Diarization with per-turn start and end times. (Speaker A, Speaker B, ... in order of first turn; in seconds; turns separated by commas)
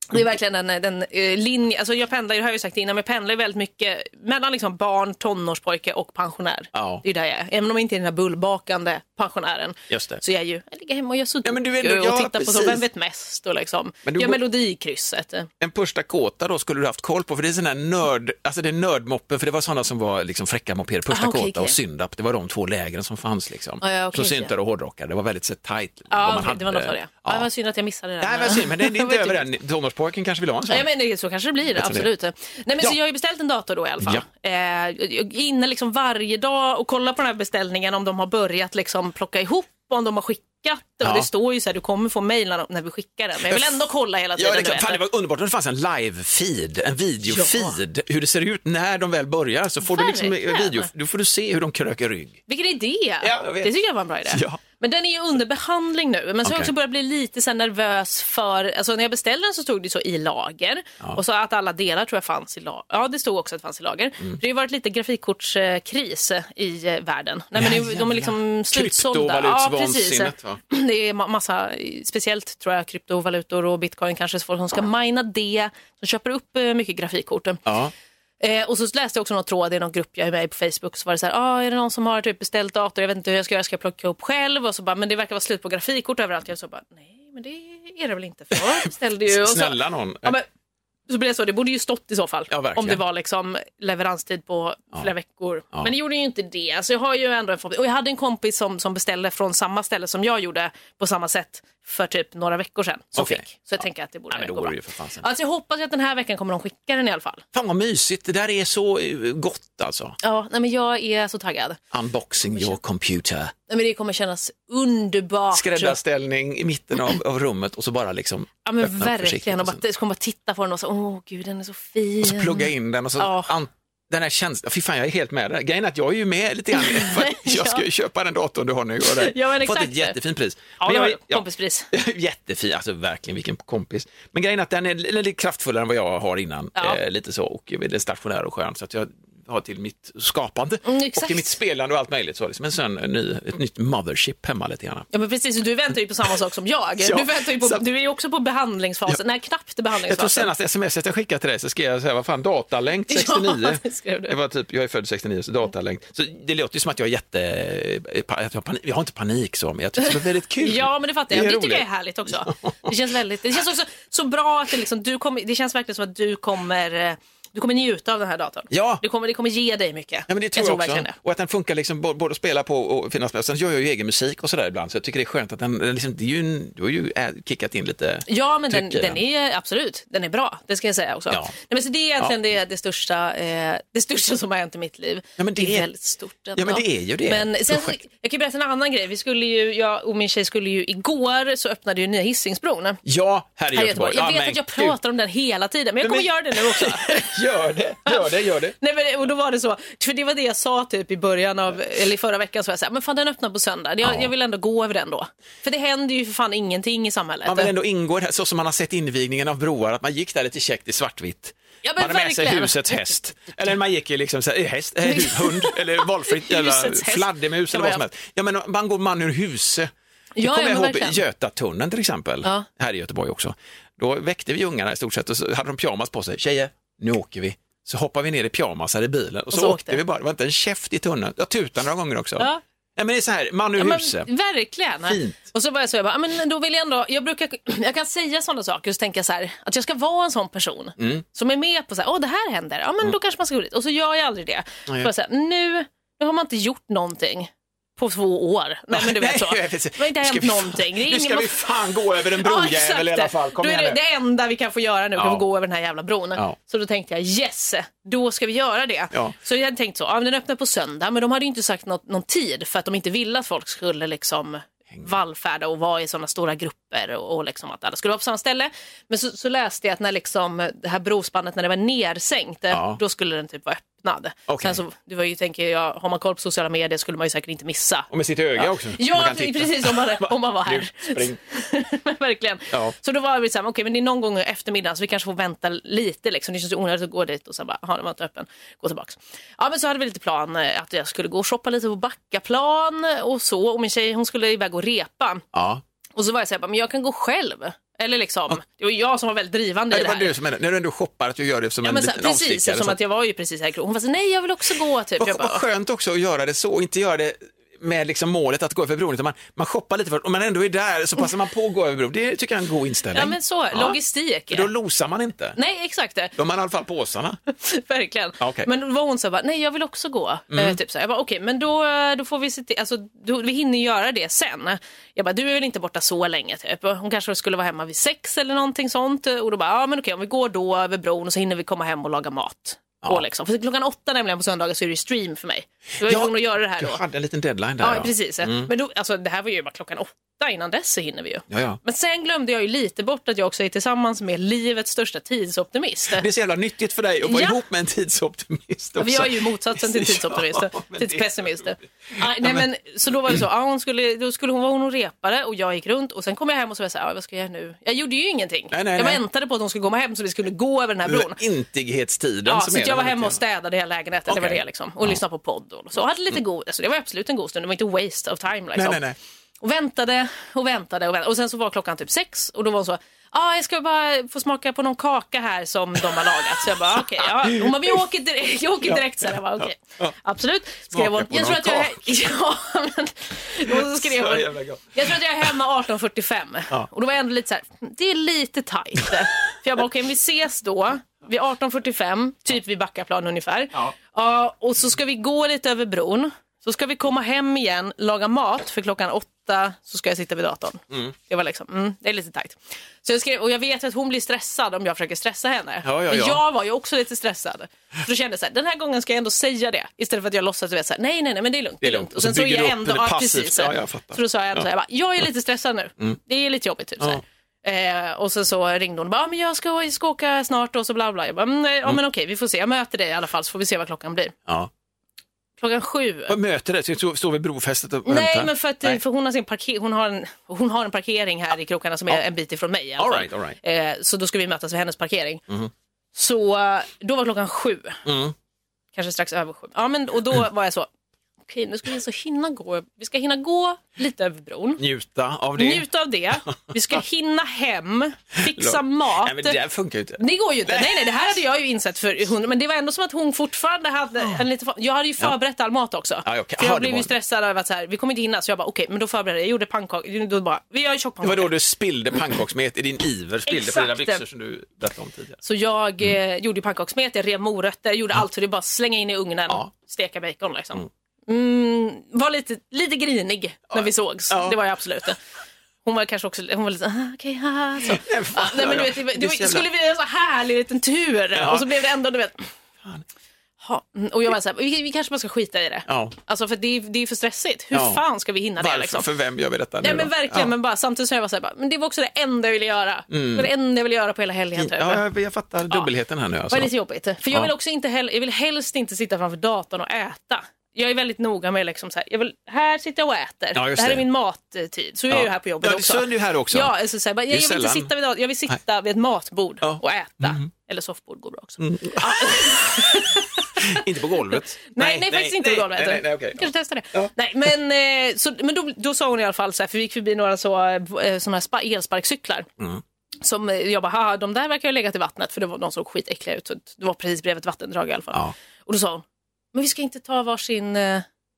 Speaker A: 0.1-15.5, Speaker B: 6.7-7.0, Speaker B: 9.9-10.2, Speaker B: 11.4-12.8, Speaker B: 14.1-14.4, Speaker B: 15.6-27.5, Speaker A: 21.1-21.8, Speaker A: 23.8-24.5, Speaker A: 26.1-29.4, Speaker B: 28.2-30.9, Speaker A: 30.7-45.0, Speaker B: 31.7-32.1, Speaker B: 41.0-41.3, Speaker B: 43.4-43.8, Speaker B: 44.4-52.4, Speaker A: 47.3-47.8, Speaker A: 49.9-50.9, Speaker A: 52.5-77.6, Speaker B: 53.2-53.7, Speaker B: 54.3-54.6, Speaker B: 56.4-56.7, Speaker B: 67.5-70.6, Speaker B: 77.6-77.9, Speaker A: 78.4-90.5, Speaker B: 89.2-90.4, Speaker A: 91.1-107.4, Speaker B: 92.5-93.0, Speaker B: 103.2-103.7, Speaker B: 104.3-105.2, Speaker B: 107.5-110.2, Speaker A: 110.2-111.8, Speaker B: 111.9-113.5, Speaker A: 112.5-112.8, Speaker A: 113.7-116.0, Speaker B: 115.5-119.8, Speaker A: 118.7-123.5, Speaker B: 122.2-145.1, Speaker A: 126.7-127.8, Speaker A: 129.1-130.2, Speaker A: 130.8-131.9, Speaker A: 140.8-141.5, Speaker A: 145.1-150.5, Speaker B: 147.0-147.8, Speaker B: 150.0-161.9, Speaker A: 153.1-154.3, Speaker A: 160.0-171.1, Speaker B: 162.4-162.9, Speaker B: 168.7-169.0, Speaker B: 170.3-179.2, Speaker A: 178.3-193.0, Speaker B: 185.4-185.9, Speaker B: 186.6-188.0, Speaker B: 193.0-195.0, Speaker A: 193.7-197.3, Speaker B: 196.0-198.7, Speaker A: 198.1-207.7, Speaker B: 204.0-204.3, Speaker B: 207.4-234.3, Speaker A: 211.8-213.1, Speaker A: 215.1-218.0, Speaker A: 220.4-221.2, Speaker A: 229.5-230.0, Speaker A: 233.8-295.4, Speaker B: 235.1-235.4, Speaker B: 241.0-241.2, Speaker B: 248.9-254.0, Speaker B: 255.2-255.4, Speaker B: 272.7-273.0, Speaker B: 274.5-274.8, Speaker B: 278.1-281.4, Speaker B: 295.5-295.8, Speaker A: 296.1-300.3, Speaker B: 299.9-303.0, Speaker A: 301.8-305.6, Speaker B: 305.2-313.9, Speaker A: 313.1-314.7, Speaker B: 314.5-315.6, Speaker A: 315.5-316.3, Speaker B: 316.4-317.4, Speaker A: 317.5-337.0, Speaker B: 318.4-318.7, Speaker B: 320.5-320.8, Speaker B: 336.0-338.7, Speaker A: 337.8-346.2, Speaker B: 341.5-341.8, Speaker B: 346.2-352.6, Speaker A: 347.2-347.6, Speaker A: 349.0-361.4, Speaker B: 358.7-359.2, Speaker B: 361.0-363.4, Speaker A: 362.4-369.0, Speaker B: 364.3-365.2, Speaker B: 368.8-369.1, Speaker A: 369.6-424.3, Speaker B: 377.2-378.0, Speaker B: 378.8-380.1, Speaker B: 380.9-382.1, Speaker B: 383.7-385.6, Speaker B: 405.8-406.4, Speaker B: 411.8-414.7, Speaker A: 425.6-426.3, Speaker B: 426.3-429.0, Speaker A: 428.0-435.4, Speaker B: 433.0-433.6, Speaker A: 436.1-438.0, Speaker B: 438.0-438.3, Speaker A: 438.9-440.9, Speaker A: 441.5-444.8, Speaker B: 444.8-445.9, Speaker A: 445.6-449.6, Speaker B: 446.4-447.0, Speaker B: 448.4-451.1, Speaker A: 450.2-461.5, Speaker B: 456.2-457.1, Speaker B: 461.2-465.4, Speaker A: 463.5-464.2, Speaker A: 465.4-475.2, Speaker B: 473.7-474.6, Speaker A: 475.8-482.5, Speaker B: 477.8-479.7, Speaker B: 481.4-481.7, Speaker A: 483.6-489.1, Speaker B: 485.9-486.1, Speaker B: 487.7-488.0, Speaker B: 488.6-490.5, Speaker A: 489.8-495.0, Speaker B: 493.1-493.5, Speaker B: 494.6-496.7, Speaker A: 496.5-513.8, Speaker B: 503.5-504.0, Speaker B: 505.1-506.7, Speaker B: 507.3-507.9, Speaker B: 509.6-510.4, Speaker B: 511.6-517.1, Speaker A: 514.7-522.5, Speaker A: 523.2-531.0